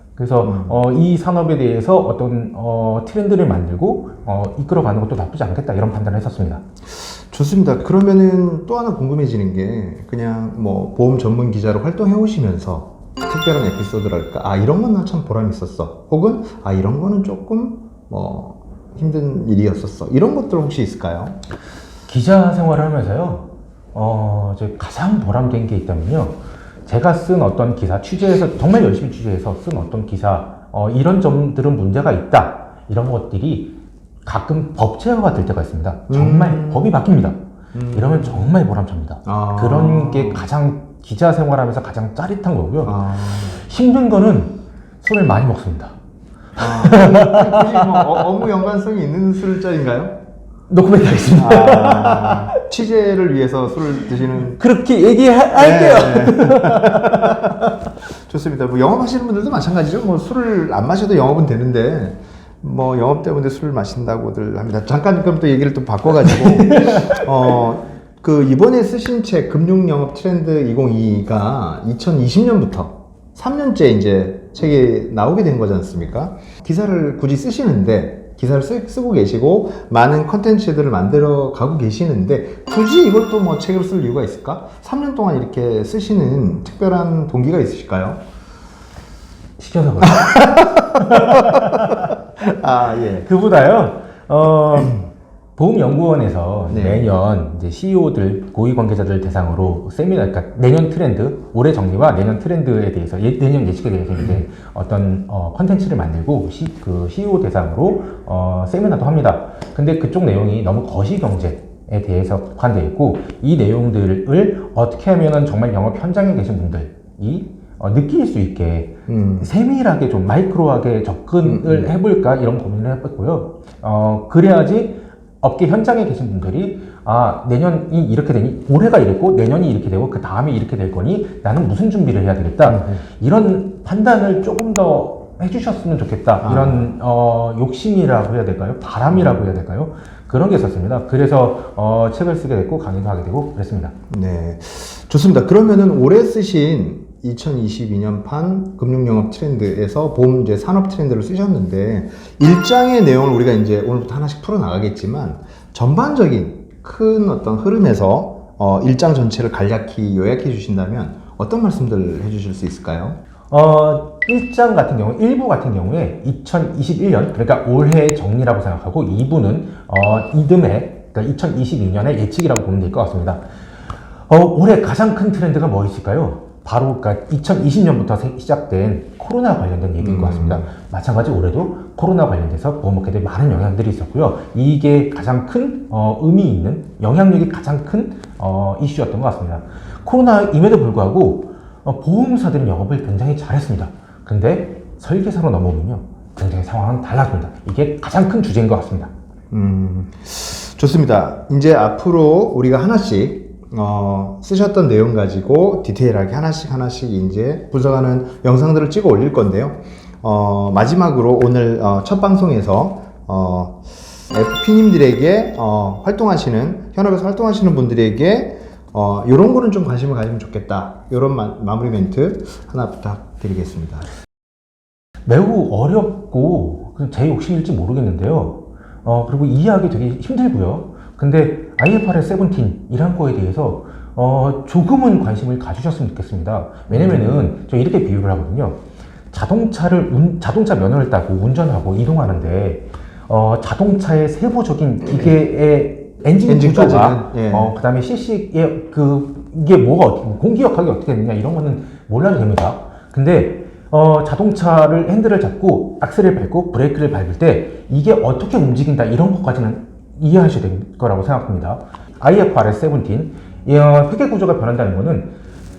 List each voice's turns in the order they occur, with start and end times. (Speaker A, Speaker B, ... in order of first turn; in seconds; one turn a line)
Speaker A: 0.1-6.6
Speaker B: 0.4-0.8
Speaker B: 6.9-21.4
Speaker A: 22.1-37.4
Speaker B: 36.1-37.0
Speaker B: 37.7-38.5
Speaker A: 37.9-46.0
Speaker B: 39.2-40.5
Speaker B: 42.8-43.6
Speaker A: 46.5-48.4
Speaker B: 46.6-50.1
Speaker A: 50.7-52.6
Speaker B: 51.3-54.6
Speaker A: 54.4-57.9
Speaker B: 55.5-57.5
Speaker B: 58.2-88.2
Speaker A: 66.2-67.5
Speaker A: 89.6-92.2
Speaker B: 90.0-93.2
Speaker A: 93.2-143.9
Speaker B: 96.7-97.1
Speaker B: 119.1-119.5
Speaker B: 121.4-121.9
Speaker B: 132.6-133.0
Speaker B: 136.4-136.9
Speaker B: 139.1-139.4
Speaker B: 144.1-163.2
Speaker A: 163.5-173.4
Speaker A: 174.3-199.1
Speaker B: 180.0-180.7
Speaker B: 199.5-224.1
Speaker A: 225.2-265.4
Speaker B: 236.9-237.4
Speaker B: 246.4-247.7